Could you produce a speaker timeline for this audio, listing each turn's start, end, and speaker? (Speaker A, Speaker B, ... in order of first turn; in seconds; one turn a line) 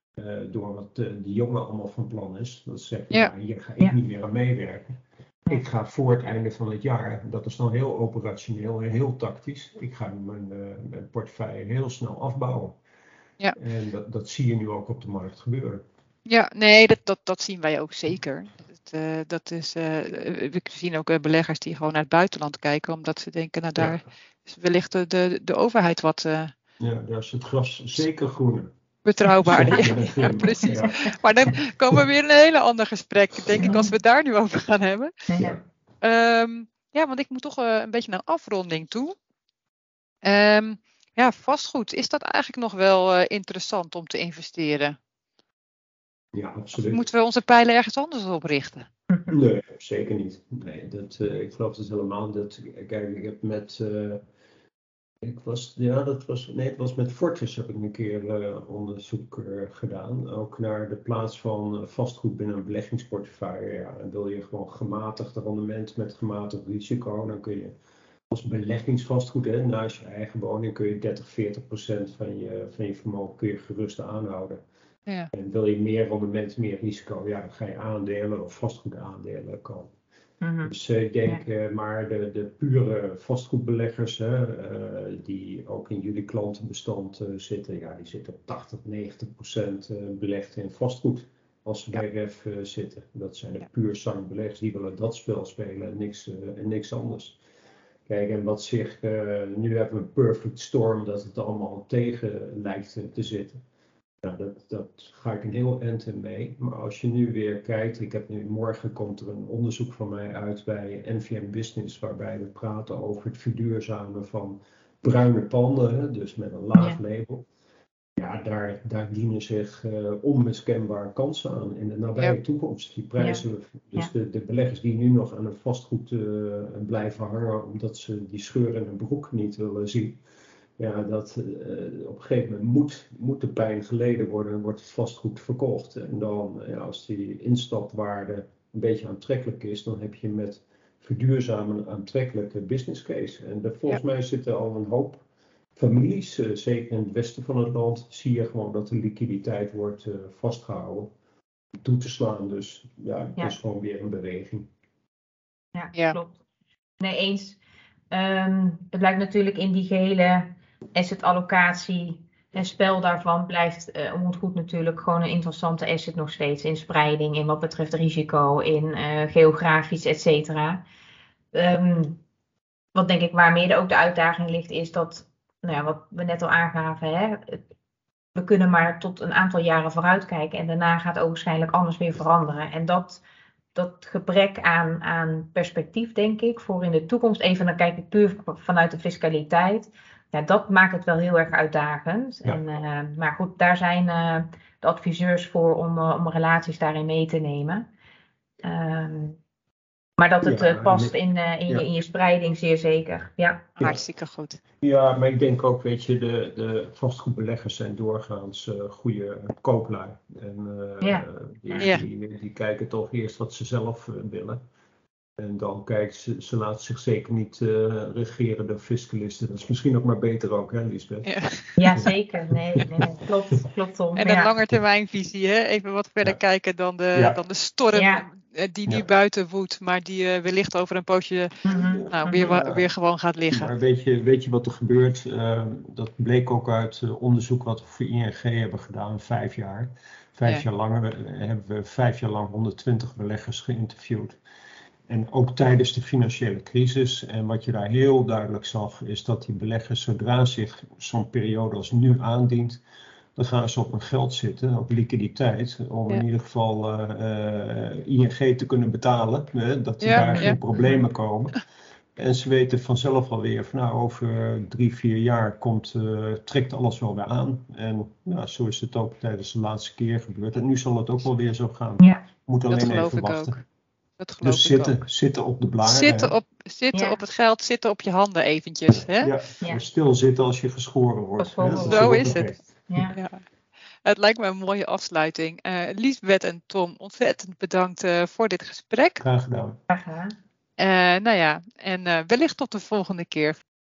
Speaker A: 0.2-12.8
Speaker A: 13.6-15.8
Speaker B: 16.3-26.5
Speaker A: 26.8-28.7
Speaker B: 29.1-35.3
Speaker A: 29.5-31.0
Speaker C: 33.6-33.9
Speaker C: 35.3-35.6
Speaker B: 36.0-39.1
Speaker B: 40.2-45.0
Speaker A: 46.3-47.1
Speaker B: 46.8-48.9
Speaker A: 49.3-54.2
Speaker A: 55.2-67.8
Speaker A: 68.3-74.6
Speaker A: 75.3-79.9
Speaker C: 80.4-80.7
Speaker A: 80.7-97.4
Speaker A: 98.1-103.6
Speaker A: 104.2-117.5
Speaker A: 118.2-130.2
Speaker A: 130.8-145.2
Speaker A: 145.8-151.1
Speaker A: 151.8-154.7
Speaker C: 155.7-156.4
Speaker B: 155.9-156.2
Speaker C: 157.0-157.6
Speaker C: 158.1-170.8
Speaker C: 171.5-172.2
Speaker C: 172.9-177.6
Speaker C: 178.3-183.2
Speaker C: 183.8-197.9
Speaker C: 198.6-199.4
Speaker C: 200.2-203.8
Speaker A: 200.4-201.2
Speaker B: 203.8-204.6
Speaker A: 204.8-214.6
Speaker C: 211.0-211.3
Speaker B: 211.8-212.1
Speaker A: 215.4-221.3
Speaker B: 221.2-222.0
Speaker C: 221.8-224.5
Speaker A: 222.8-223.1
Speaker B: 224.2-233.7
Speaker C: 227.9-228.2
Speaker C: 231.7-232.5
Speaker A: 231.7-232.9
Speaker A: 233.5-244.4
Speaker A: 245.1-252.8
Speaker A: 253.4-261.6
Speaker B: 260.0-260.6
Speaker C: 260.1-260.6
Speaker A: 262.2-273.6
Speaker C: 272.0-272.2
Speaker B: 272.7-273.6
Speaker B: 274.2-275.0
Speaker A: 274.4-276.3
Speaker B: 275.8-279.3
Speaker C: 276.9-277.2
Speaker A: 278.9-282.6
Speaker C: 281.4-282.4
Speaker B: 281.7-282.5
Speaker C: 282.9-283.2
Speaker B: 283.1-283.4
Speaker B: 284.1-289.2
Speaker A: 289.2-289.8
Speaker C: 289.9-290.4
Speaker B: 290.8-293.6